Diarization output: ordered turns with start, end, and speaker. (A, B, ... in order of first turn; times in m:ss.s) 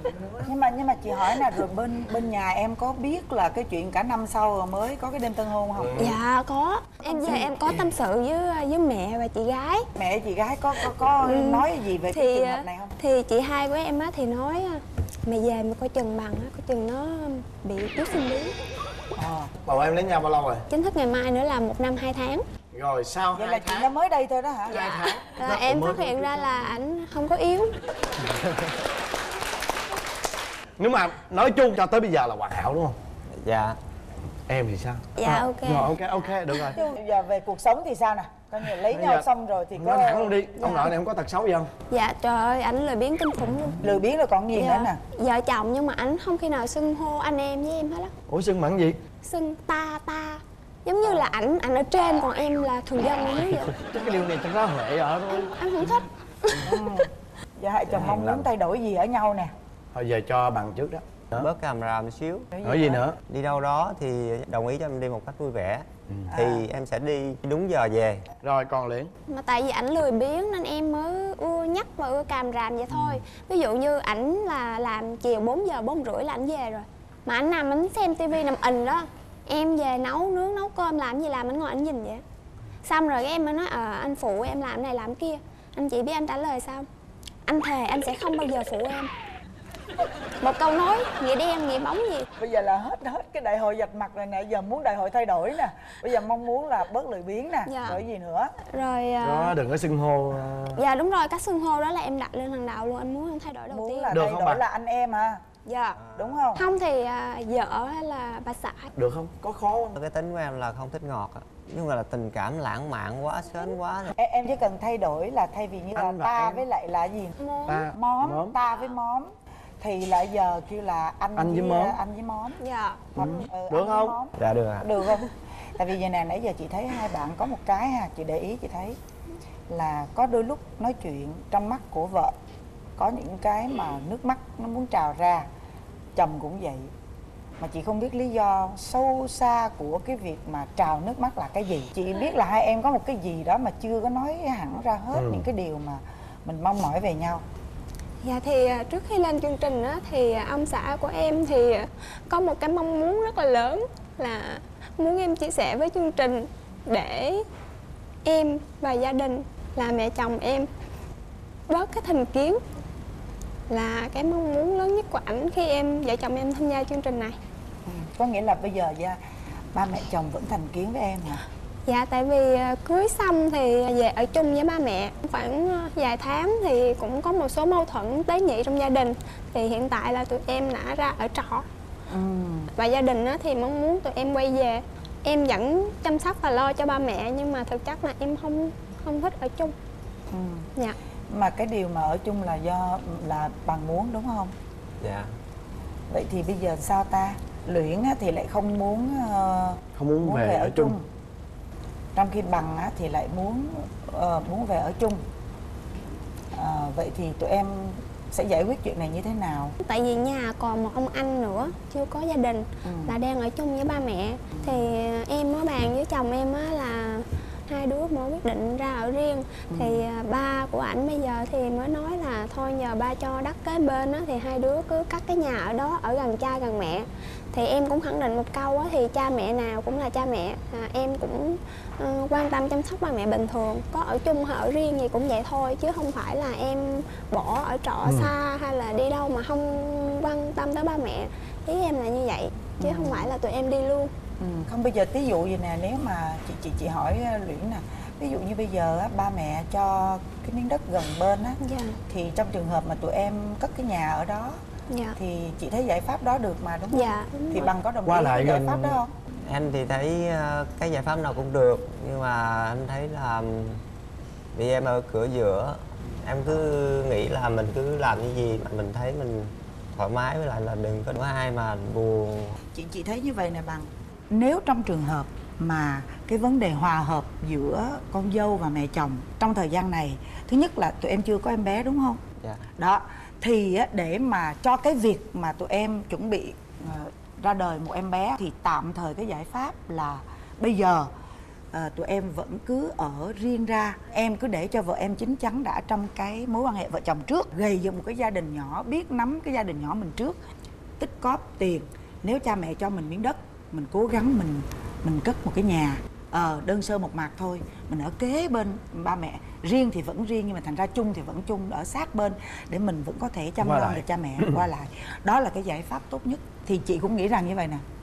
0:00.4-0:06.1 A
0:05.8-0:06.2 B
0:06.0-0:09.9 C
0:07.0-0:07.8 A
0:10.0-0:13.0 A
0:11.2-0:18.6 C
0:19.2-0:19.5 A
0:19.6-0:20.6 B
0:20.7-0:22.4 C
0:22.7-0:23.9 B
0:23.3-0:25.1 A
0:24.7-0:26.6 B
0:25.3-0:27.7 C
0:30.8-0:33.0 B
0:33.4-0:33.8 D
0:34.5-0:36.8 B
0:35.2-0:35.9 C
0:36.7-0:40.9 A
0:38.7-0:41.7 B
0:41.9-0:43.8 C
0:43.8-0:45.0 A
0:44.5-0:48.1 C
0:48.3-0:49.0 B
0:49.2-0:53.8 C
0:53.7-0:55.6 B
0:55.3-0:56.9 C
0:56.6-0:59.5 A
0:57.9-0:58.5 B
0:59.9-1:01.5 B
1:01.4-1:02.5 D
1:02.5-1:03.1 A
1:02.6-1:03.2 B
1:03.3-1:08.3 D
1:06.3-1:06.7 A
1:08.4-1:09.1 B
1:09.3-1:22.2 C
1:12.9-1:13.2 B
1:22.8-1:26.9 C
1:27.5-1:29.1 C
1:30.4-1:32.3 C
1:32.4-1:38.5 A
1:37.6-1:38.0 C
1:38.6-1:39.5 C
1:39.2-1:40.8 B
1:40.8-1:44.1 C
1:43.7-1:45.4 A
1:44.1-1:44.6 B
1:45.6-1:46.0 C
1:46.0-1:46.4 D
1:46.2-1:46.6 A
1:46.5-1:48.9 C
1:48.9-1:50.0 B
1:50.0-1:54.1 D
1:54.2-1:57.4 A
1:55.9-1:56.6 B
1:57.4-1:57.9 C
1:57.7-1:58.6 B
1:57.9-1:59.3 A
1:59.8-2:02.6 A
2:01.4-2:02.0 B
2:02.6-2:03.0 C
2:03.1-2:09.0 A
2:03.2-2:04.2 B
2:04.4-2:04.9 D
2:09.7-2:12.3 A
2:13.0-2:15.5 A
2:16.2-2:16.9 A
2:17.6-2:27.4 A
2:25.1-2:25.4 B
2:28.2-2:37.4 C
2:38.2-2:40.7 C
2:41.7-2:42.6 C
2:43.7-2:47.4 C
2:47.9-2:49.2 A
2:49.7-2:51.4 A
2:51.9-3:01.7 C
3:02.1-3:02.7 A
3:02.7-3:09.7 C
3:10.3-3:10.7 A
3:11.3-3:14.5 A
3:15.0-3:15.3 D
3:16.1-3:21.0 A
3:20.0-3:21.0 B
3:22.2-3:25.2 A
3:26.5-3:29.8 A
3:29.8-4:04.1 C
3:32.8-3:33.2 A
3:39.7-3:40.0 A
3:58.0-3:58.3 B
4:02.8-4:03.3 A
4:04.4-4:14.6 A
4:11.6-4:12.0 C
4:14.9-4:15.2 C
4:15.2-4:19.1 A
4:16.9-4:17.7 C
4:18.1-4:19.0 B
4:19.5-4:23.8 D
4:24.5-4:32.6 D
4:32.7-4:42.2 A
4:42.8-4:51.1 A
4:51.7-5:00.4 A
5:01.0-5:17.8 A
5:13.6-5:14.6 B